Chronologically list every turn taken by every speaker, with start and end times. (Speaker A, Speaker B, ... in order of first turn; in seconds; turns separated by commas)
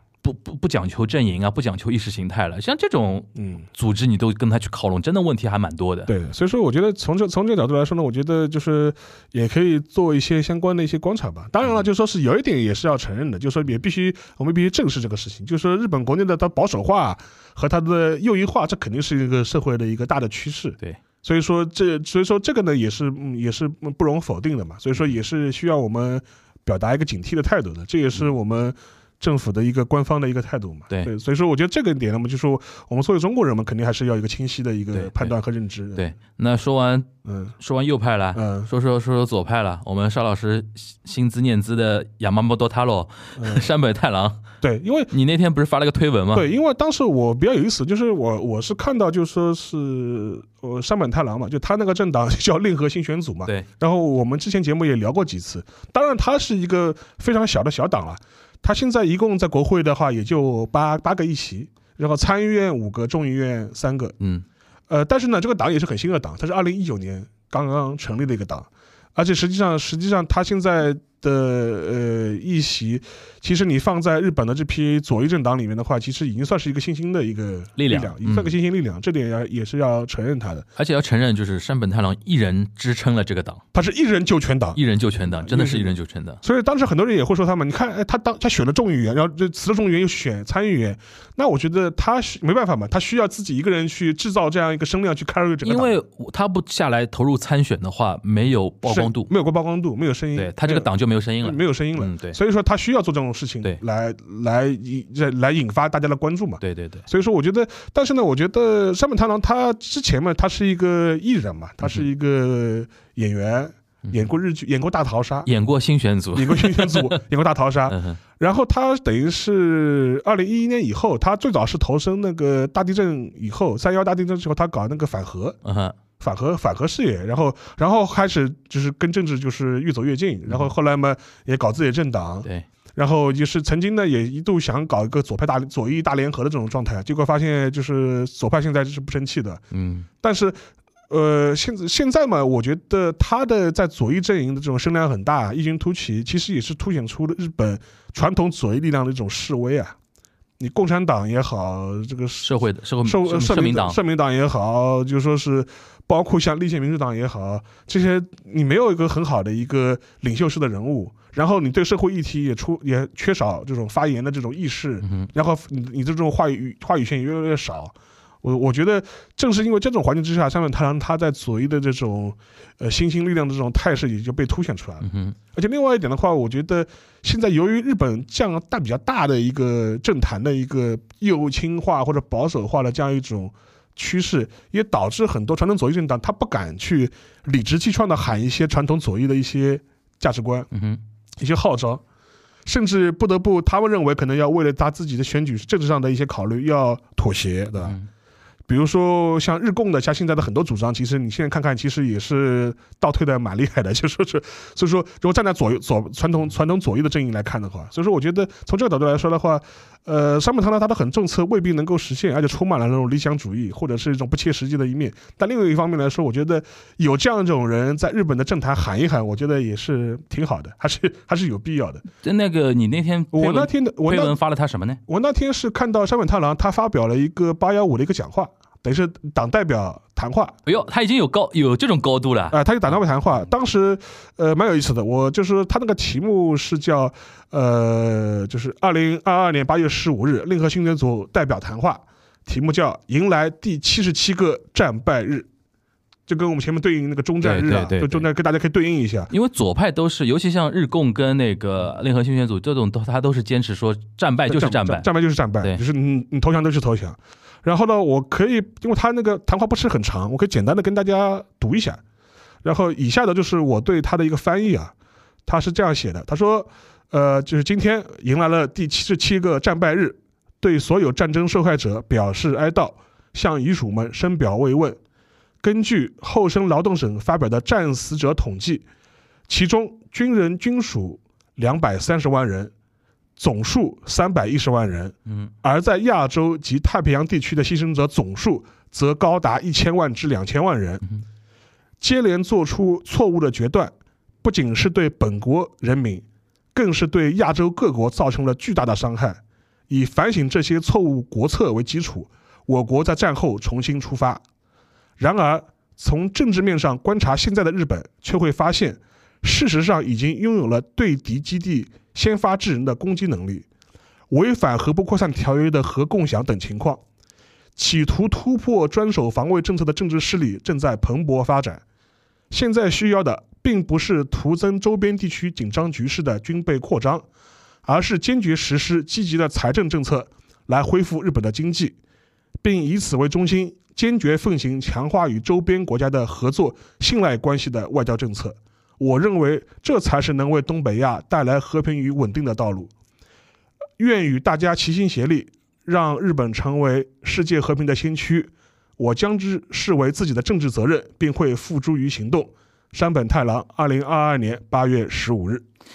Speaker A: 0.2-6.1, Speaker B: 3.4-3.6, Speaker B: 6.1-36.0, Speaker A: 34.9-35.3, Speaker A: 36.0-44.4, Speaker B: 37.2-37.5, Speaker B: 38.3-38.7, Speaker B: 43.4-43.6, Speaker B: 44.6-45.1, Speaker A: 45.1-46.5, Speaker B: 46.3-64.2, Speaker A: 64.2-64.4, Speaker B: 64.9-80.7, Speaker A: 77.8-78.5, Speaker A: 80.8-83.6, Speaker B: 83.7-84.8, Speaker A: 84.7-86.4, Speaker B: 85.4-85.9, Speaker B: 86.4-96.0, Speaker A: 95.6-99.3, Speaker B: 98.8-100.9, Speaker A: 100.3-102.4, Speaker B: 101.4-115.5, Speaker A: 106.6-107.0, Speaker A: 115.5-117.2, Speaker B: 116.3-125.6, Speaker A: 117.9-118.2, Speaker A: 125.6-126.0, Speaker B: 126.2-139.6, Speaker A: 139.7-140.1, Speaker B: 140.2-140.6, Speaker B: 141.1-149.9, Speaker B: 150.6-152.5, Speaker A: 152.4-154.0, Speaker B: 153.0-190.7, Speaker A: 165.0-165.3, Speaker A: 175.0-175.3, Speaker A: 190.7-191.0, Speaker B: 191.4-192.0, Speaker B: 192.6-197.9, Speaker B: 198.7-222.0, Speaker A: 222.2-225.0, Speaker B: 223.3-224.3, Speaker B: 225.1-230.5, Speaker A: 230.6-232.6, Speaker B: 232.5-245.5, Speaker B: 246.3-249.3, Speaker A: 247.4-248.2, Speaker A: 249.3-255.1, Speaker B: 254.5-262.0, Speaker B: 262.6-264.9, Speaker B: 265.4-275.0, Speaker B: 275.6-278.8, Speaker B: 279.5-282.7, Speaker B: 283.4-291.0, Speaker B: 292.0-293.9, Speaker B: 294.4-296.2, Speaker B: 296.7-304.4, Speaker B: 305.2-313.6, Speaker B: 314.3-317.0, Speaker B: 317.8-321.8, Speaker B: 322.5-327.2, Speaker B: 327.8-331.9, Speaker B: 332.6-342.9, Speaker B: 344.0-355.6